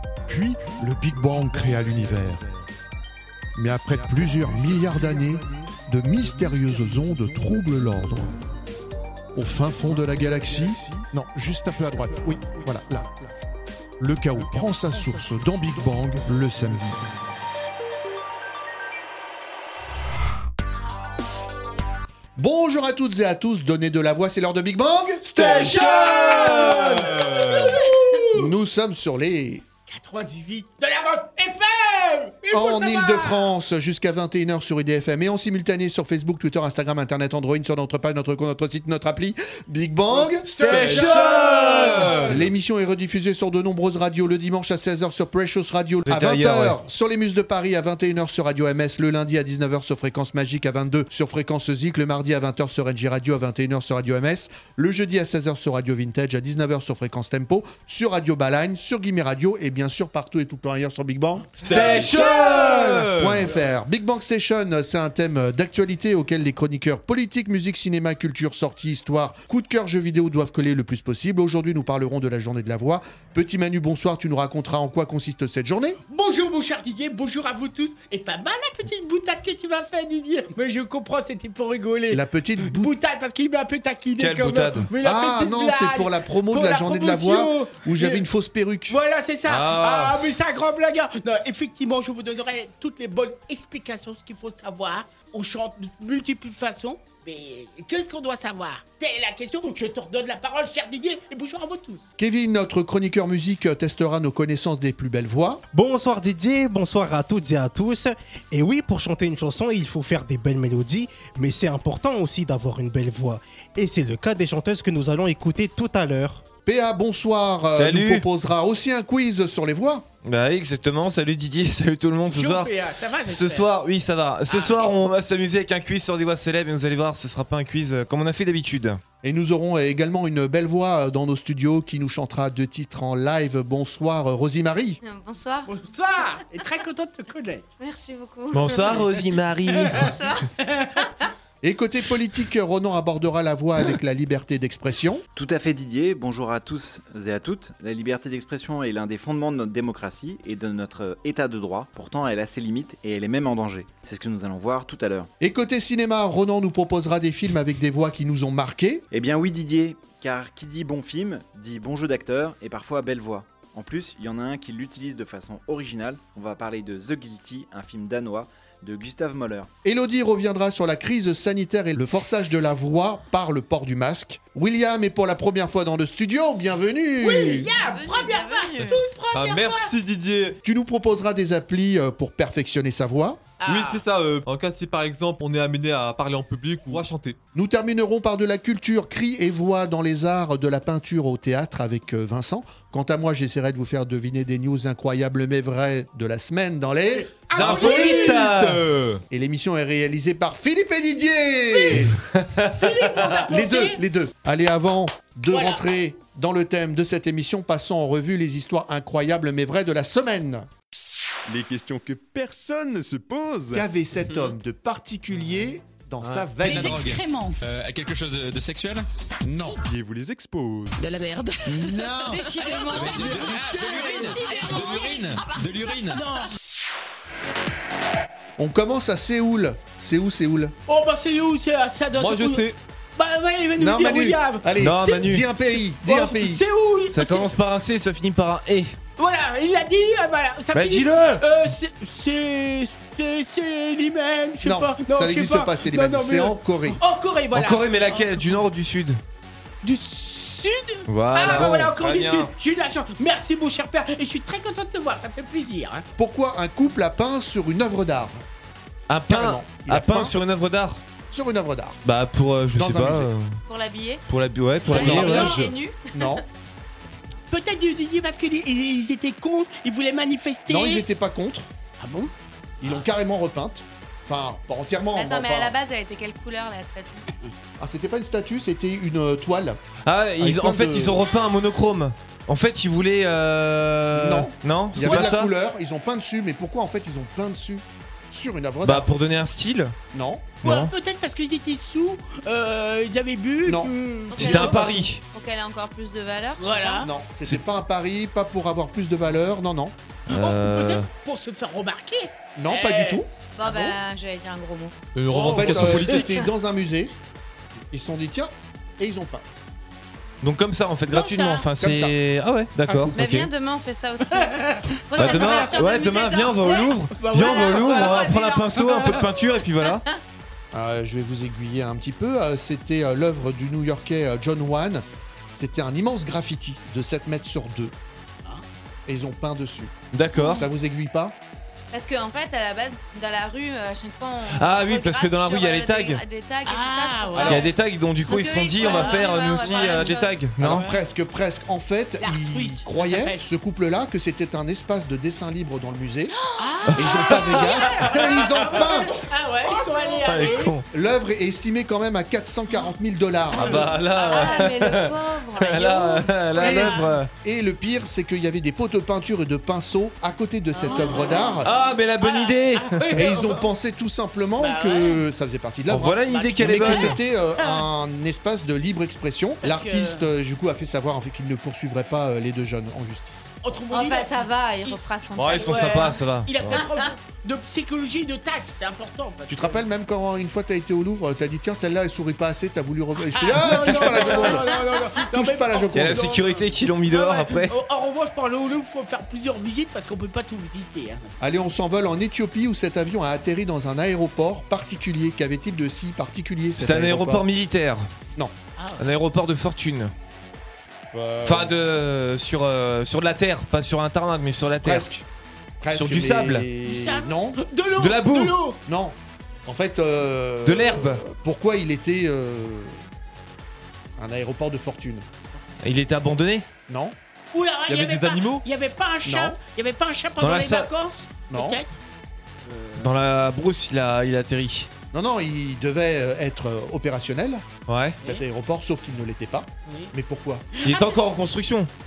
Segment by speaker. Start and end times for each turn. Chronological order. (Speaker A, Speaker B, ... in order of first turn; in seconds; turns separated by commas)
Speaker A: 0.3-2.5, Speaker A: 3.5-8.3, Speaker A: 9.3-13.1, Speaker A: 14.0-17.0, Speaker A: 22.4-26.0, Speaker B: 25.3-27.8, Speaker C: 25.3-28.5, Speaker A: 28.3-29.6, Speaker C: 29.9-33.5, Speaker A: 32.5-41.0, Speaker C: 40.5-42.2, Speaker D: 40.5-42.2, Speaker B: 40.7-42.5, Speaker A: 42.2-76.0, Speaker D: 46.0-46.8, Speaker B: 61.6-63.0, Speaker D: 61.6-63.4, Speaker C: 76.1-88.2, Speaker A: 82.1-82.9, Speaker D: 84.2-84.9, Speaker A: 85.0-89.0, Speaker C: 88.9-102.0, Speaker D: 89.5-90.2, Speaker A: 102.2-105.6, Speaker E: 105.7-116.5, Speaker A: 116.7-120.0, Speaker D: 117.8-118.2, Speaker D: 120.2-122.7, Speaker C: 122.3-123.7, Speaker D: 123.2-129.0, Speaker C: 124.5-125.1, Speaker A: 129.2-135.0, Speaker F: 135.0-135.7, Speaker C: 135.7-137.6, Speaker F: 137.8-139.1, Speaker D: 138.5-140.1, Speaker F: 139.9-141.3, Speaker C: 140.6-140.9, Speaker A: 141.6-145.2, Speaker G: 145.3-155.3, Speaker A: 155.4-159.0, Speaker G: 159.1-169.7, Speaker A: 169.8-177.7, Speaker C: 177.2-179.9, Speaker F: 177.8-179.0, Speaker B: 178.8-180.6, Speaker A: 180.6-183.4, Speaker C: 183.6-184.0, Speaker B: 183.6-187.4, Speaker A: 187.5-198.2, Speaker C: 197.2-198.5, Speaker D: 197.5-199.1, Speaker B: 197.5-199.2, Speaker A: 199.3-202.2, Speaker D: 202.3-202.7, Speaker C: 202.7-204.0, Speaker A: 203.3-210.7, Speaker C: 205.5-205.8, Speaker H: 211.5-213.8, Speaker A: 213.7-217.1, Speaker I: 216.6-219.1, Speaker J: 216.6-217.6, Speaker A: 219.4-219.8, Speaker H: 219.8-221.1, Speaker J: 221.0-226.4, Speaker A: 221.7-222.5, Speaker I: 222.7-226.3, Speaker A: 223.1-224.3, Speaker A: 228.6-230.7, Speaker C: 230.9-232.6, Speaker B: 232.1-232.8, Speaker C: 233.2-237.6, Speaker A: 233.8-236.6, Speaker D: 234.8-235.5, Speaker D: 237.1-238.9, Speaker C: 239.2-248.6, Speaker D: 240.7-241.4, Speaker A: 244.6-247.0, Speaker D: 247.5-249.2, Speaker C: 249.8-256.1, Speaker D: 251.1-252.5, Speaker A: 256.1-258.4, Speaker D: 259.1-261.0, Speaker A: 259.3-260.4, Speaker A: 261.3-262.0, Speaker D: 262.0-263.5, Speaker A: 262.7-263.3, Speaker F: 263.7-264.2, Speaker D: 264.3-265.7, Speaker F: 264.8-266.4, Speaker A: 264.9-265.5, Speaker A: 266.1-266.4, Speaker C: 267.5-271.0, Speaker A: 270.7-271.7, Speaker C: 272.0-272.3, Speaker A: 272.8-275.7, Speaker F: 275.1-277.3, Speaker A: 277.8-279.8, Speaker D: 280.0-285.5, Speaker A: 280.4-281.2, Speaker A: 284.1-289.1, Speaker D: 288.8-289.9, Speaker A: 290.1-290.5, Speaker D: 290.6-290.9, Speaker C: 290.6-294.7, Speaker A: 293.6-295.0, Speaker F: 294.3-297.1, Speaker D: 294.4-295.2, Speaker C: 296.6-297.1, Speaker A: 297.0-299.9, Speaker D: 300.3-301.1, Speaker C: 300.3-303.9, Speaker A: 302.6-303.3, Speaker F: 303.5-304.9, Speaker B: 305.1-306.3, Speaker C: 305.3-306.3, Speaker A: 305.3-307.1, Speaker A: 307.9-309.4, Speaker D: 310.4-313.5, Speaker C: 311.1-311.7, Speaker A: 311.8-312.2, Speaker A: 312.8-313.1, Speaker F: 313.1-314.5, Speaker C: 314.3-315.7, Speaker F: 315.1-320.2, Speaker D: 315.1-320.0, Speaker C: 317.2-318.2, Speaker C: 318.8-319.2, Speaker A: 320.7-327.9, Speaker A: 329.1-331.4, Speaker D: 330.1-330.6, Speaker F: 331.9-340.3, Speaker D: 334.6-336.2, Speaker C: 336.6-337.7, Speaker D: 337.4-340.9, Speaker C: 338.8-340.2, Speaker A: 340.6-346.3, Speaker C: 342.2-343.4, Speaker C: 346.6-350.7, Speaker A: 346.9-349.2, Speaker D: 350.2-350.8, Speaker A: 350.9-353.9, Speaker C: 353.5-354.7, Speaker D: 353.5-357.3, Speaker F: 354.1-356.3, Speaker C: 356.6-357.1, Speaker A: 356.6-361.7, Speaker C: 360.8-363.6, Speaker D: 361.5-363.3, Speaker A: 363.1-373.5, Speaker C: 364.6-365.2, Speaker D: 365.9-367.2, Speaker C: 366.3-367.8, Speaker C: 369.6-370.2, Speaker C: 373.6-375.0, Speaker F: 373.9-376.2, Speaker D: 375.4-376.8, Speaker C: 375.5-379.8, Speaker F: 376.7-377.0, Speaker A: 379.5-386.2, Speaker C: 383.3-391.3, Speaker D: 383.9-384.2, Speaker D: 385.9-387.8, Speaker A: 391.4-397.4, Speaker D: 396.8-398.1, Speaker C: 398.8-399.1, Speaker D: 399.0-400.1, Speaker A: 401.1-401.8, Speaker D: 401.4-405.1, Speaker A: 404.8-405.2, Speaker A: 405.8-407.6, Speaker D: 405.9-406.7, Speaker C: 406.8-408.8, Speaker D: 408.0-408.6, Speaker A: 408.9-413.0, Speaker D: 410.6-411.2, Speaker A: 414.2-415.2, Speaker D: 415.8-416.7, Speaker A: 416.9-417.1, Speaker C: 417.5-421.9, Speaker B: 417.9-418.6, Speaker A: 419.2-419.6, Speaker D: 420.4-420.9, Speaker A: 421.5-421.8, Speaker D: 423.0-424.9, Speaker A: 425.1-430.7, Speaker D: 427.9-428.2, Speaker C: 430.8-431.2, Speaker D: 430.8-431.9